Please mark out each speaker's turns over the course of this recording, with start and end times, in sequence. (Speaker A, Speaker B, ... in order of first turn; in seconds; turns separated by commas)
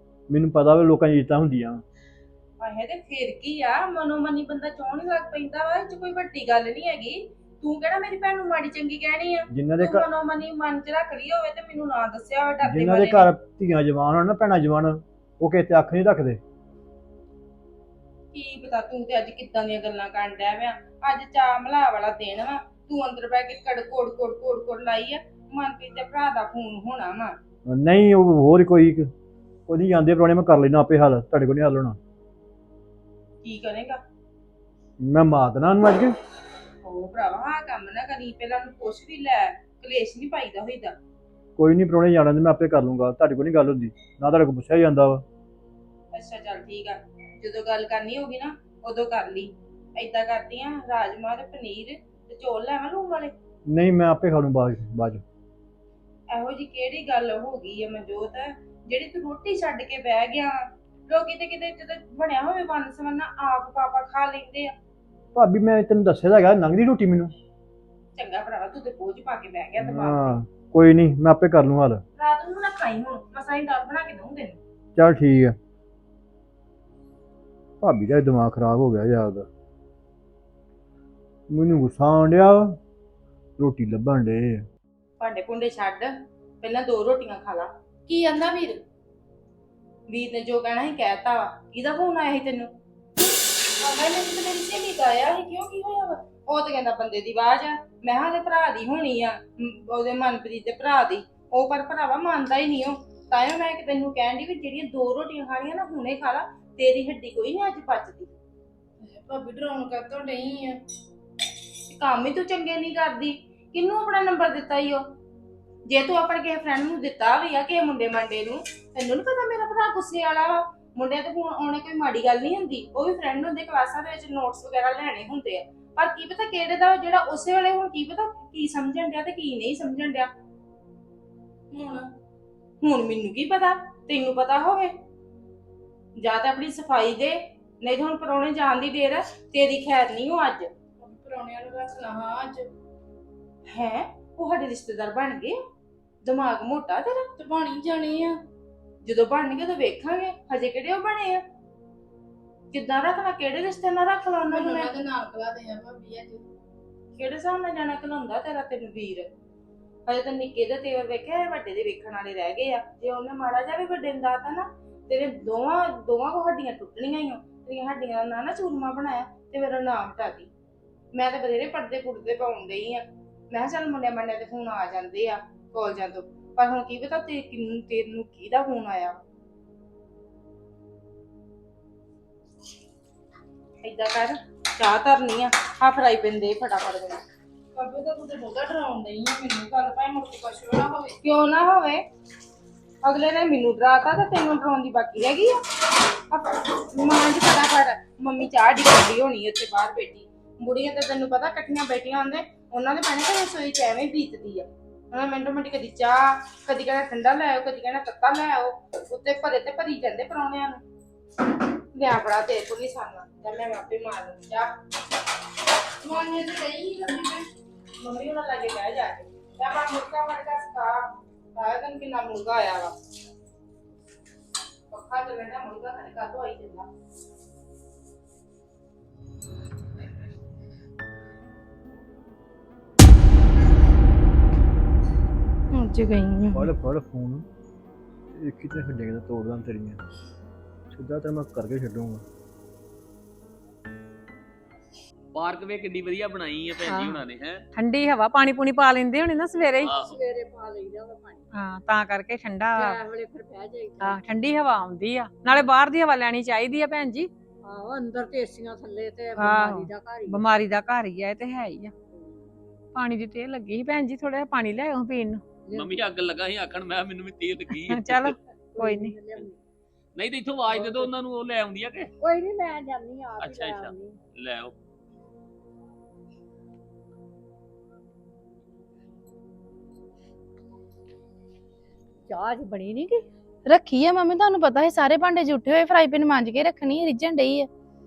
Speaker A: 0.3-1.8, Speaker B: 2.6-13.3, Speaker A: 9.5-10.1, Speaker A: 12.6-16.4, Speaker B: 18.3-27.4, Speaker A: 27.7-29.1, Speaker A: 29.7-32.0, Speaker B: 33.4-34.0, Speaker A: 35.0-36.1, Speaker B: 36.8-41.0, Speaker A: 41.6-45.2, Speaker B: 46.1-53.3, Speaker A: 53.7-55.2, Speaker B: 56.3-64.7, Speaker A: 65.3-67.3, Speaker B: 68.2-70.4, Speaker A: 69.8-72.0, Speaker B: 72.2-74.6, Speaker A: 75.0-75.6, Speaker A: 77.8-79.5, Speaker A: 81.5-82.8, Speaker A: 83.6-84.7, Speaker B: 85.2-88.8, Speaker B: 90.1-92.7, Speaker B: 93.8-108.3, Speaker C: 109.0-110.8, Speaker B: 111.9-115.0, Speaker B: 115.9-130.3, Speaker C: 131.7-132.1, Speaker B: 132.8-134.9, Speaker B: 136.2-140.7, Speaker C: 141.0-142.7, Speaker B: 143.7-145.6, Speaker B: 146.2-147.2, Speaker C: 147.4-148.4, Speaker B: 149.0-151.4, Speaker B: 152.7-154.9, Speaker C: 154.5-156.4, Speaker B: 157.2-159.3, Speaker B: 160.1-170.5, Speaker B: 171.1-179.2, Speaker B: 183.8-187.2, Speaker C: 187.8-191.2, Speaker B: 191.2-192.1, Speaker B: 193.0-195.6, Speaker B: 196.3-210.8, Speaker B: 211.9-214.7, Speaker C: 216.0-217.5, Speaker B: 218.0-222.9, Speaker B: 224.9-226.9, Speaker C: 235.7-236.7, Speaker A: 236.6-237.5, Speaker A: 238.3-240.0, Speaker A: 240.9-242.2, Speaker D: 245.3-247.6, Speaker E: 246.9-247.2, Speaker E: 247.8-249.9, Speaker F: 249.5-251.4, Speaker D: 249.8-250.2, Speaker E: 251.5-253.0, Speaker F: 252.8-254.2, Speaker E: 254.0-257.3, Speaker F: 257.6-260.4, Speaker E: 259.4-261.9, Speaker F: 262.1-262.5, Speaker E: 262.9-265.4, Speaker F: 265.6-265.9, Speaker D: 265.7-268.4, Speaker E: 267.8-269.1, Speaker F: 268.8-269.6, Speaker D: 270.2-272.1, Speaker F: 270.7-271.1, Speaker F: 272.2-274.2, Speaker D: 273.4-274.7, Speaker F: 282.3-283.3, Speaker C: 283.7-287.7